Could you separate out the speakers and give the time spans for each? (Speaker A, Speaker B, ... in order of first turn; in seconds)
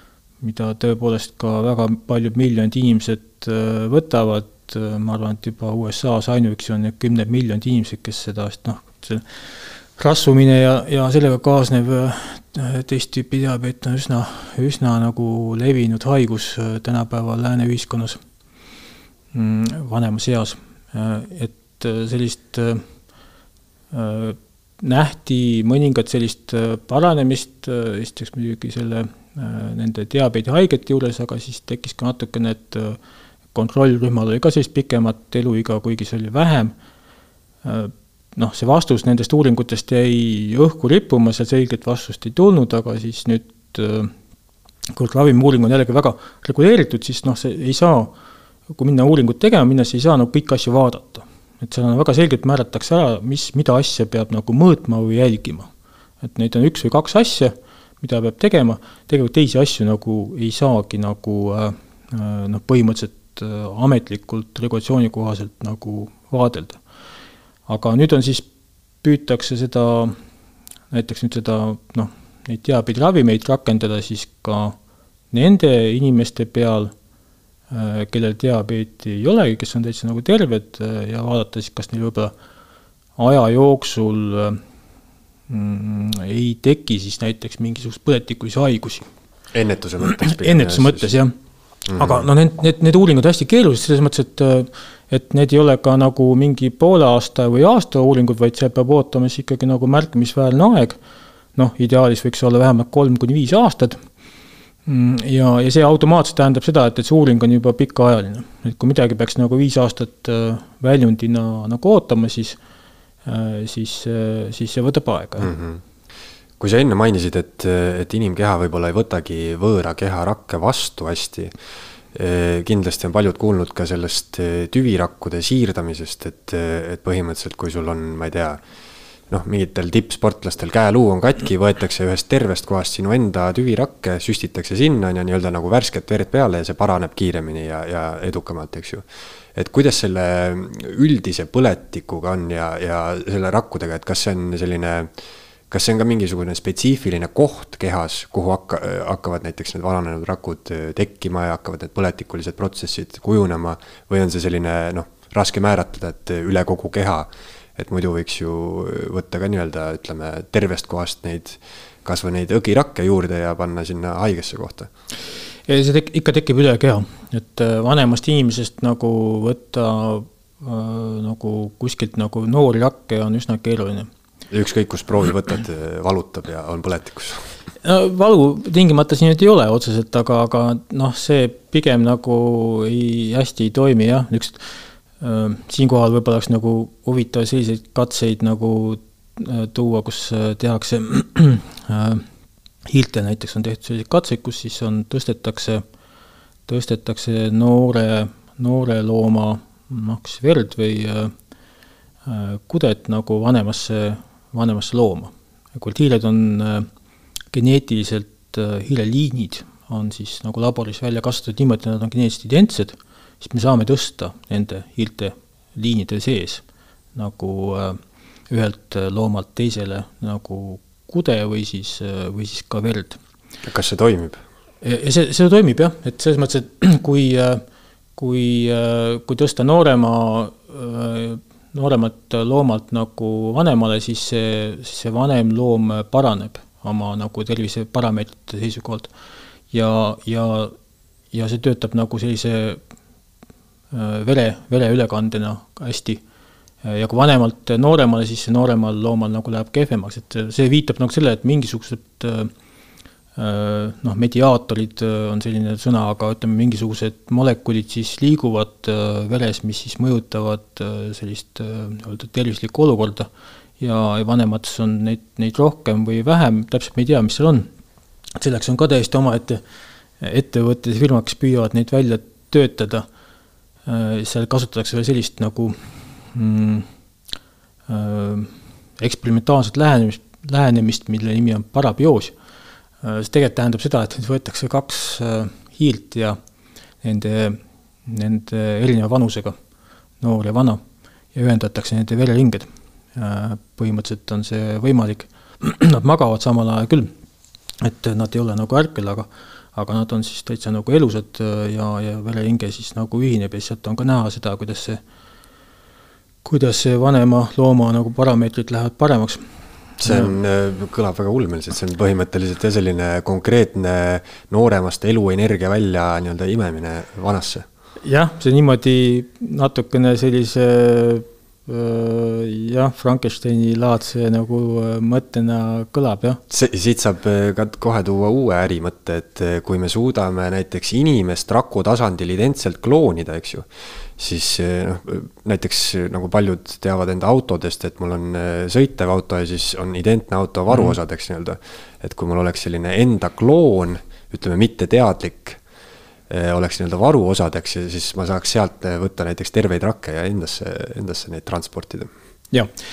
Speaker A: 0.4-9.2, 10.0-18.2, 19.3-22.8, 23.9-33.0, 33.5-36.7, 37.6-44.1, 44.9-48.1, 48.7-55.7, 56.2-66.8, 67.7-68.5, 69.0-70.1, 70.9-74.8, 75.3-76.9, 77.7-82.3, 83.2-84.6, 85.5-89.1, 90.1-91.3, 92.0-101.0, 101.5-104.0, 104.9-112.6, 113.2-115.5, 165.7-174.1, 177.8-184.6, 185.2-192.2, 192.9-195.8, 196.7-201.3, 202.2-206.9, 207.5-216.6, 217.2-218.0, 218.5-223.2, 224.8-227.6, 228.2-239.1, 239.7-240.7, 241.3-242.8, 243.9-246.2, 246.8-252.5, 253.4-263.3, 263.8-267.7, 268.4-269.6, 270.2-273.1, 273.9-275.8, 276.3-276.9, 277.9-282.3, 283.0-286.4, 287.0-289.5, 290.2-290.8, 291.3-297.1, 297.8-305.0, 306.4-309.4, 310.0-310.3, 318.0-326.4
Speaker B: 89.5-91.1, 91.9-92.3, 115.4-115.8, 116.6-121.5, 122.1-128.6, 129.3-145.1, 145.7-164.9, 174.5-177.5, 223.7-224.4, 310.0-317.6, 326.5-333.6, 334.2-345.6, 346.3-352.1